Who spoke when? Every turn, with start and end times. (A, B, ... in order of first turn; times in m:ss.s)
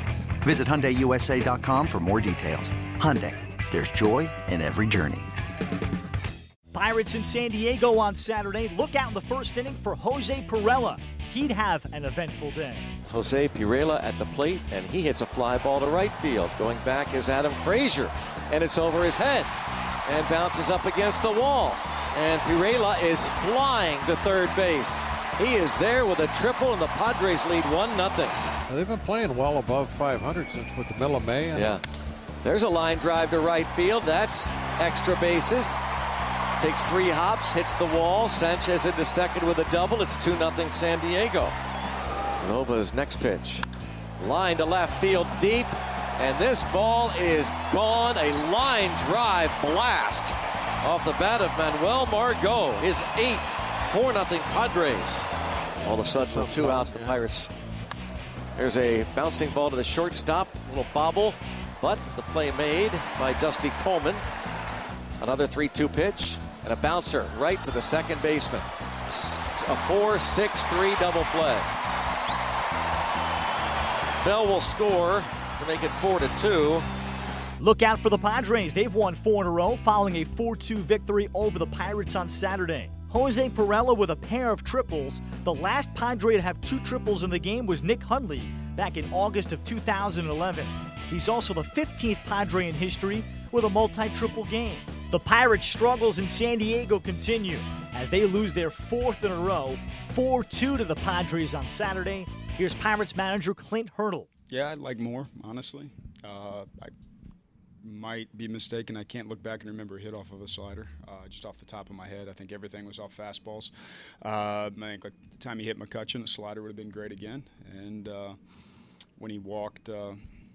0:00.4-0:05.3 A
0:06.7-0:12.9 B
0:13.1-0:19.5 C
0:20.1-0:28.4 C
0:28.7-0:31.8 D
0:31.5-0:31.8 C
0:32.4-0:35.8 C
0:36.6-0:41.6 C
0:42.4-0:43.7 C
0:44.2-0:55.3 C
0:55.8-0:57.5 C
0:58.6-1:04.2 C
1:05.2-1:11.7 C
1:14.2-1:16.9 C
1:17.6-1:44.3 B
1:44.5-1:46.9 E
1:47.8-1:58.4 E
1:59.2-2:00.2 E